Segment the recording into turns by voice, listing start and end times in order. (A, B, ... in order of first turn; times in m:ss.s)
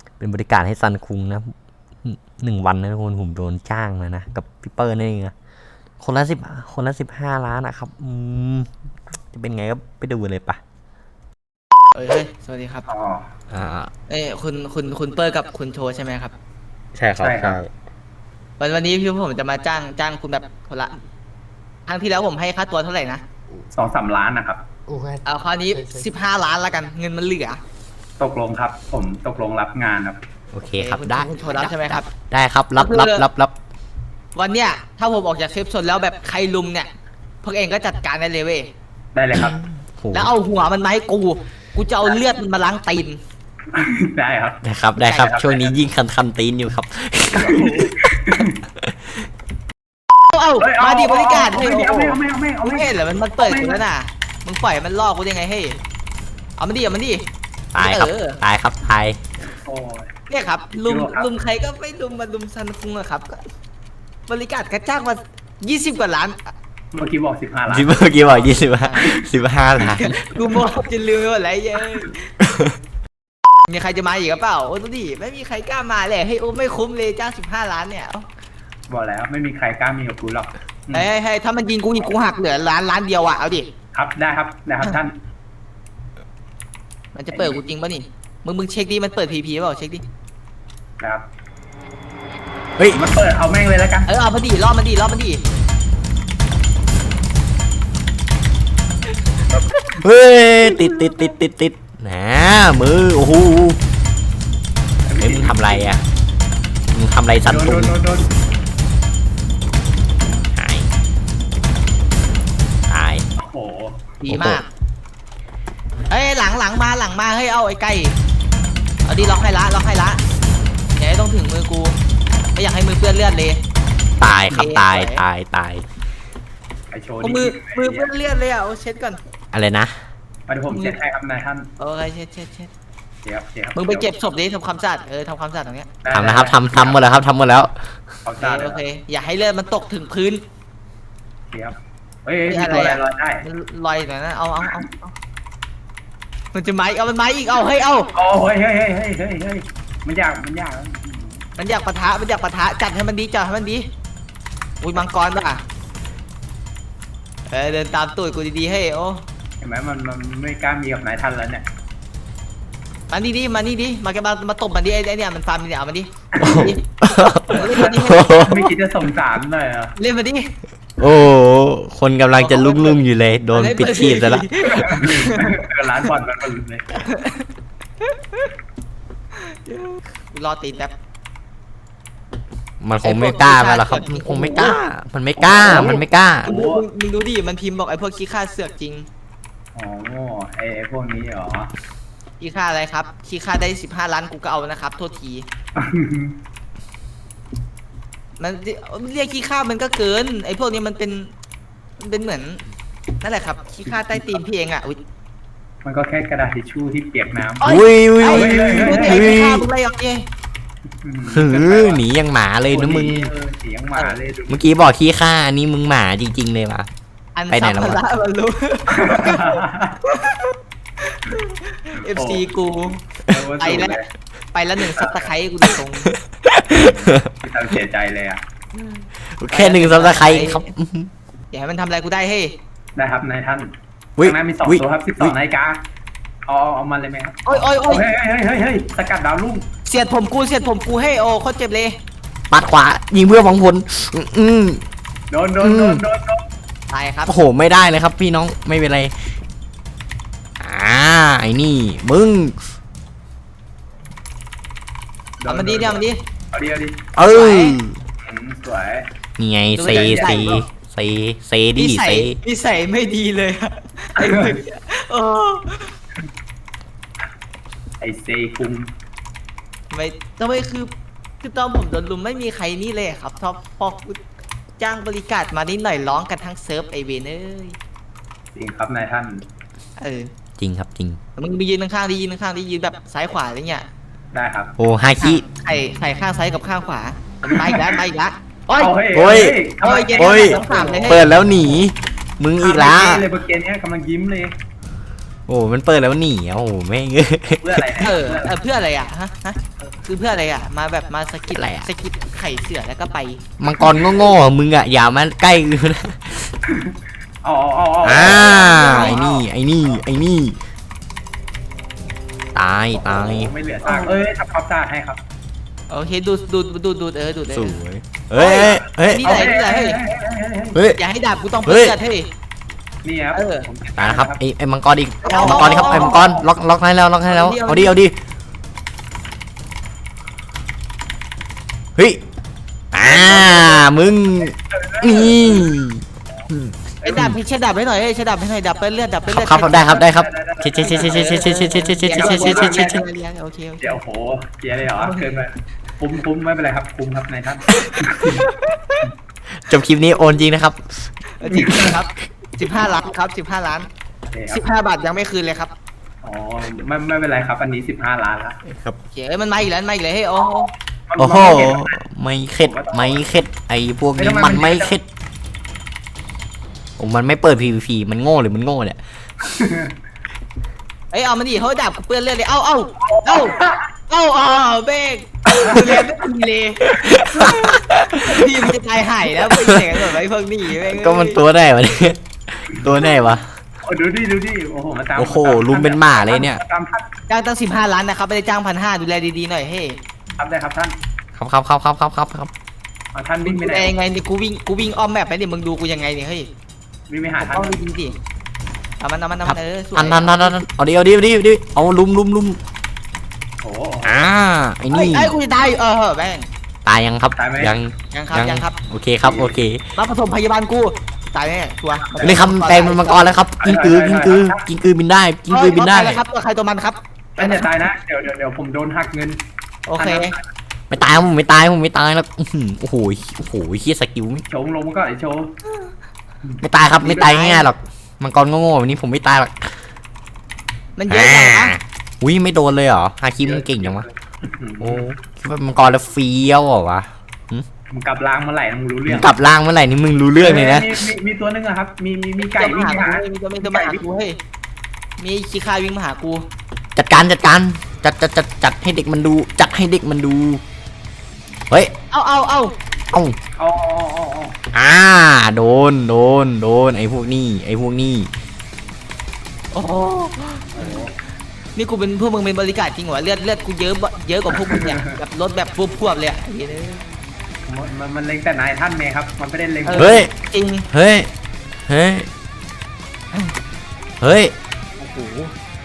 0:00.2-0:05.3 A
0:06.0-0:08.7 A
0:09.3-0:10.6 A
0:11.9-0:12.8 B
0:12.9-0:13.3 C
0:13.5-0:13.9 A
0:14.1-0:16.3 B
0:17.0-0:17.7 A
0:17.2-0:17.6 C
0:18.6-0:21.0 B
0:21.9-0:23.2 B
0:23.8-0:24.6 C
0:24.9-0:26.1 A
0:25.2-0:27.6 B
0:28.2-0:30.2 C
0:30.5-0:33.5 A
0:30.8-0:32.1 B
0:32.8-0:33.3 B
0:34.4-0:36.9 B
0:37.4-0:38.7 B
0:39.1-0:39.6 C
0:39.3-0:40.3 A
0:40.1-0:43.2 B
0:43.7-0:44.6 C
0:44.6-0:47.7 A
0:45.0-0:45.3 B
0:45.2-0:45.8 C
0:47.3-0:48.6 C
0:47.5-0:47.8 B
0:50.3-0:55.8 B
0:50.6-0:53.8 C
0:56.6-0:57.2 B
0:57.7-0:59.2 A
0:57.8-0:58.4 B
0:59.6-1:00.1 C
1:00.3-1:03.4 B
1:00.8-1:01.3 C
1:04.3-1:06.5 B
1:06.9-1:09.1 C
1:07.7-1:10.1 A
1:08.8-1:09.1 B
1:10.0-1:12.3 B
1:12.4-1:12.7 A
1:13.7-1:18.3 B
1:18.9-1:21.1 C
1:20.9-1:23.7 B
1:23.9-1:25.1 C
1:27.1-1:30.0 B
1:27.3-1:27.6 C
1:31.0-1:31.2 C
1:32.9-1:34.1 C
1:34.1-1:35.4 B
1:40.0-1:43.8 A
1:40.6-1:41.2 C
1:45.1-1:46.0 C
1:45.2-1:46.0 A
1:46.9-1:47.9 A
1:47.4-1:48.3 C
1:50.5-1:50.9 A
1:52.9-1:53.2 A
1:53.4-1:54.1 C
1:54.2-1:54.7 B
1:54.3-1:54.6 A
1:56.1-1:58.1 B
1:59.0-2:00.2 B
2:01.0-2:02.0 B
2:02.6-2:03.6 B
2:04.2-2:05.8 A
2:04.4-2:05.2 B
2:06.9-2:08.1 C
2:07.2-2:09.2 B
2:09.5-2:09.9 A
2:10.5-2:11.7 C
2:10.7-2:11.0 B
2:11.8-2:12.7 B
2:13.2-2:14.1 C
2:13.8-2:15.9 B
2:16.0-2:17.0 C
2:16.1-2:17.7 A
2:18.2-2:18.8 C
2:18.4-2:20.4 B
2:21.5-2:23.4 C
2:22.5-2:25.1 B
2:26.5-2:28.1 B
2:28.1-2:31.4 C
2:31.6-2:33.8 B
2:34.8-2:35.6 B
2:37.5-2:39.3 B
2:39.6-2:41.6 C
2:43.1-2:46.8 B
2:46.4-2:46.7 C
2:46.4-2:48.7 A
2:47.5-2:48.4 B
2:47.6-2:49.9 C
2:50.0-2:50.5 B
2:51.0-2:54.5 A
2:52.4-2:53.0 B
2:53.5-2:55.5 B
2:54.8-2:56.9 C
2:57.1-2:57.5 B
2:59.4-3:00.9 B
3:02.8-3:06.5 A
3:03.0-3:04.8 B
3:05.4-3:06.8 C
3:05.7-3:09.1 B
3:09.8-3:11.7 C
3:12.4-3:15.5 B
3:15.8-3:16.4 C
3:18.4-3:21.3 B
3:22.0-3:22.6 B
3:23.2-3:25.0 B
3:23.9-3:24.4 C
3:25.8-3:27.6 C
3:27.6-3:30.2 B
3:27.6-3:29.6 A
3:28.2-3:29.4 C
3:31.0-3:32.1 C
3:31.3-3:33.3 A
3:32.6-3:34.6 C
3:34.5-3:36.9 A
3:37.4-3:43.0 B
3:37.5-3:38.0 A
3:38.9-3:40.0 C
3:42.0-3:42.5 C
3:43.3-3:44.1 C
3:43.6-3:44.0 B
3:44.5-3:46.1 B
3:45.0-3:45.3 C
3:46.3-3:47.3 A
3:47.1-3:48.4 C
3:49.4-3:51.1 A
3:49.5-3:50.7 B
3:51.5-3:52.6 B
3:53.0-3:55.8 C
3:54.2-3:55.3 A
3:56.5-3:59.6 C
3:57.5-3:58.0 B
3:59.9-4:01.9 B
4:02.5-4:04.8 A
4:05.3-4:06.4 C
4:05.6-4:06.0 A
4:06.9-4:07.4 B
4:07.3-4:09.1 A
4:10.6-4:12.6 A
4:15.4-4:17.0 C
4:15.5-4:16.2 B
4:17.2-4:18.0 A
4:17.2-4:17.8 B
4:18.2-4:19.0 C
4:19.4-4:22.4 A
4:19.8-4:20.6 B
4:19.8-4:20.6 C
4:21.8-4:26.0 B
4:24.2-4:24.6 C
4:28.0-4:28.9 C
4:29.9-4:30.9 B
4:31.4-4:34.2 B
4:34.8-4:37.8 B
4:38.6-4:39.4 C
4:40.0-4:40.3 B
4:40.6-4:41.2 A
4:41.4-4:43.9 B
4:44.3-4:44.7 C
4:44.8-4:45.4 A
4:45.2-4:49.0 B
4:47.4-4:47.8 C
4:48.8-4:51.6 C
4:49.1-4:49.6 A
4:49.8-4:51.3 B
4:50.1-4:53.2 A
4:52.6-4:54.5 C
4:55.5-4:58.0 A
4:57.6-4:58.6 C
4:58.0-5:03.4 B
5:01.5-5:01.9 A
5:03.6-5:06.5 A
5:03.8-5:04.3 C
5:06.7-5:09.5 C
5:08.0-5:10.6 A
5:08.2-5:09.2 B
5:12.6-5:13.5 A
5:12.9-5:15.2 C
5:13.8-5:14.2 B
5:15.9-5:17.8 B
5:17.5-5:19.4 A
5:18.4-5:20.0 B
5:19.2-5:20.8 C
5:20.7-5:21.0 A
5:21.0-5:22.3 B
5:21.6-5:22.0 A
5:23.0-5:24.4 C
5:23.3-5:23.7 B
5:24.0-5:28.2 A
5:25.2-5:26.2 B
5:25.3-5:26.5 C
5:27.3-5:28.0 B
5:32.9-5:37.4 A
5:33.0-5:33.9 C
5:34.7-5:35.8 C
5:37.0-5:40.0 B
5:39.3-5:43.0 A
5:39.7-5:43.0 C
5:40.8-5:44.0 B
5:43.8-5:48.4 C
5:45.0-5:45.3 B
5:47.8-5:49.0 B
5:49.6-5:51.1 A
5:51.4-5:53.9 B
5:51.4-5:52.0 C
5:54.3-5:54.6 C
5:54.5-5:55.7 B
5:56.2-5:58.6 C
5:58.7-5:59.0 A
5:59.1-6:00.7 B
6:01.1-6:01.9 C
6:01.2-6:05.0 A
6:02.6-6:03.3 C
6:04.2-6:05.0 C
6:07.0-6:09.0 A
6:09.4-6:09.9 C
6:11.1-6:13.6 B
6:13.0-6:13.9 C
6:14.1-6:21.4 B
6:15.5-6:15.9 C
6:16.8-6:18.5 A
6:17.3-6:17.8 C
6:19.4-6:20.2 A
6:20.8-6:23.5 A
6:23.8-6:27.1 C
6:25.2-6:26.6 A
6:27.3-6:30.0 B
6:30.4-6:30.9 C
6:31.4-6:32.5 A
6:33.1-6:34.0 C
6:33.4-6:36.5 B
6:37.1-6:37.8 C
6:37.4-6:38.2 B
6:39.0-6:40.6 B
6:39.4-6:42.6 A
6:43.6-6:44.2 C
6:44.0-6:45.3 A
6:44.9-6:46.5 B
6:46.8-6:49.8 A
6:47.4-6:47.8 C
6:48.1-6:48.8 B
6:49.2-6:49.6 C
6:50.0-6:53.3 B
6:52.0-6:52.4 C
6:52.2-6:56.2 A
6:53.6-6:54.6 C
6:55.5-6:57.7 B
6:57.4-6:59.4 C
6:59.9-7:00.4 B
7:00.0-7:00.4 C
7:00.9-7:04.4 A
7:04.5-7:05.5 C
7:06.4-7:07.6 C
7:06.6-7:09.8 A
7:07.3-7:07.7 B
7:11.0-7:11.8 B
7:11.1-7:14.0 A
7:13.4-7:15.0 C
7:14.8-7:17.7 A
7:17.9-7:19.3 C
7:19.1-7:21.0 A
7:20.4-7:24.0 C
7:22.4-7:24.4 B
7:25.2-7:26.4 B
7:27.0-7:30.6 A
7:32.1-7:32.7 B
7:33.6-7:34.6 C
7:34.7-7:38.3 A
7:39.7-7:41.0 B
7:40.7-7:41.1 C
7:41.8-7:47.0 B
7:44.5-7:45.2 C
7:47.7-7:50.2 C
7:49.9-7:50.9 B
7:50.0-7:50.3 A
7:50.9-7:51.3 A
7:51.9-7:52.3 A
7:54.2-7:54.5 A
7:55.0-7:55.5 B